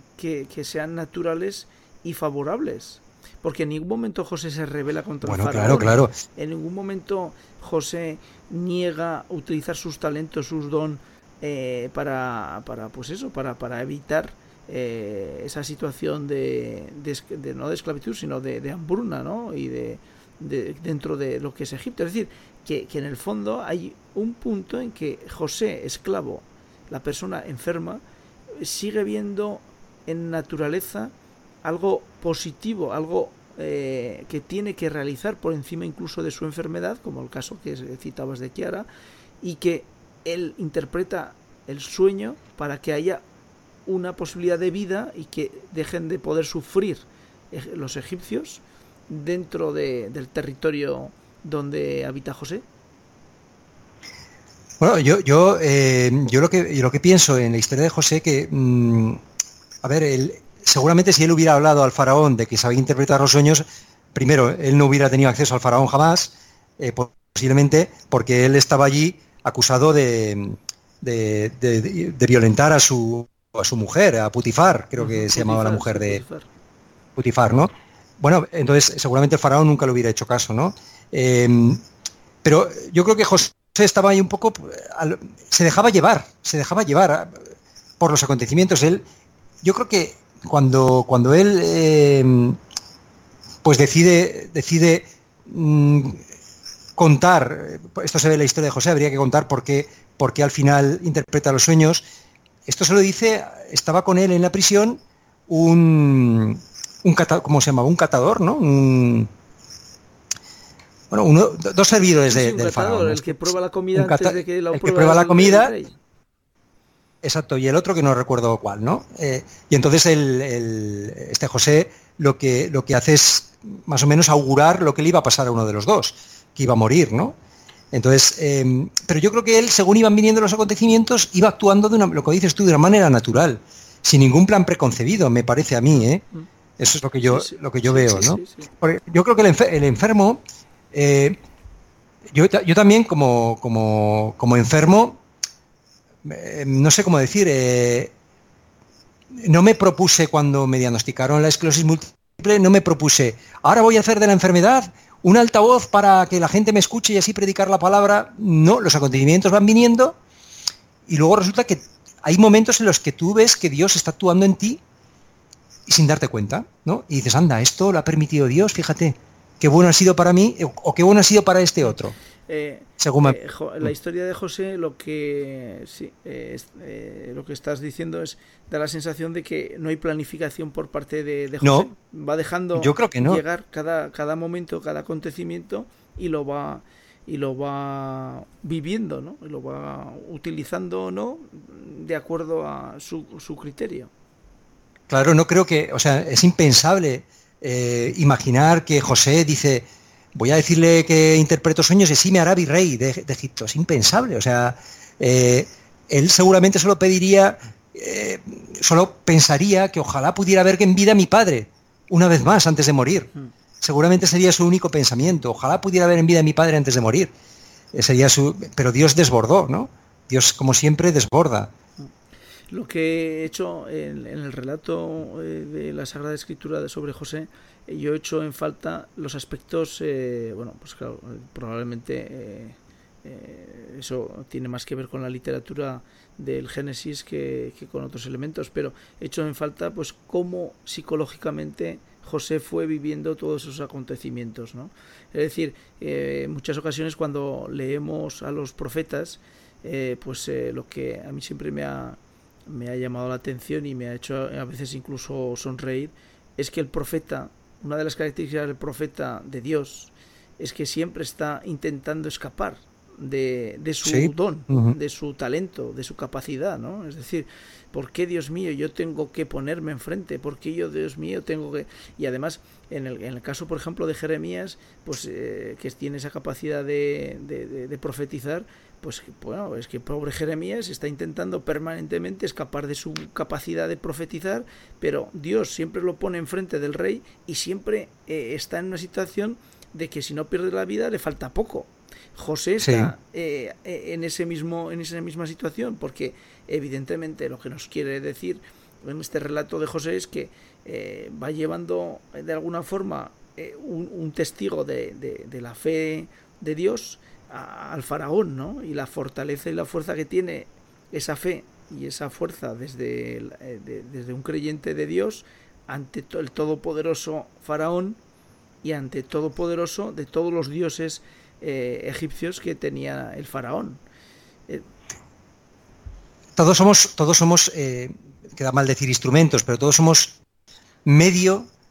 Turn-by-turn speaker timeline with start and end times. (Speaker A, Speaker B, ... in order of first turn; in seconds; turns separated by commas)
Speaker A: 0.2-28.0, Speaker B: 5.2-6.1, Speaker A: 28.5-38.9, Speaker A: 39.4-43.2, Speaker A: 43.9-52.6, Speaker B: 54.8-59.2, Speaker B: 59.8-76.2, Speaker A: 75.0-76.5, Speaker B: 77.2-81.8, Speaker B: 82.4-87.4, Speaker B: 88.0-89.0, Speaker B: 89.6-92.6, Speaker B: 93.6-96.2, Speaker B: 97.0-102.0, Speaker B: 102.7-109.3, Speaker B: 111.1-115.7, Speaker A: 112.3-116.0, Speaker B: 117.2-127.3, Speaker B: 127.9-136.2, Speaker B: 136.8-140.4, Speaker A: 137.2-138.7, Speaker B: 140.9-141.4, Speaker B: 142.3-145.2, Speaker B: 146.2-148.1, Speaker B: 149.3-160.2, Speaker B: 161.1-164.8, Speaker B: 165.9-172.2, Speaker A: 172.5-194.1, Speaker B: 173.0-173.4, Speaker B: 181.6-181.9, Speaker B: 182.8-183.4, Speaker B: 195.1-213.3, Speaker B: 213.8-217.3, Speaker B: 217.9-221.7, Speaker A: 222.7-318.2, Speaker B: 264.0-265.0, Speaker B: 292.8-293.1, Speaker A: 318.8-324.0, Speaker B: 326.6-330.4, Speaker B: 331.1-331.7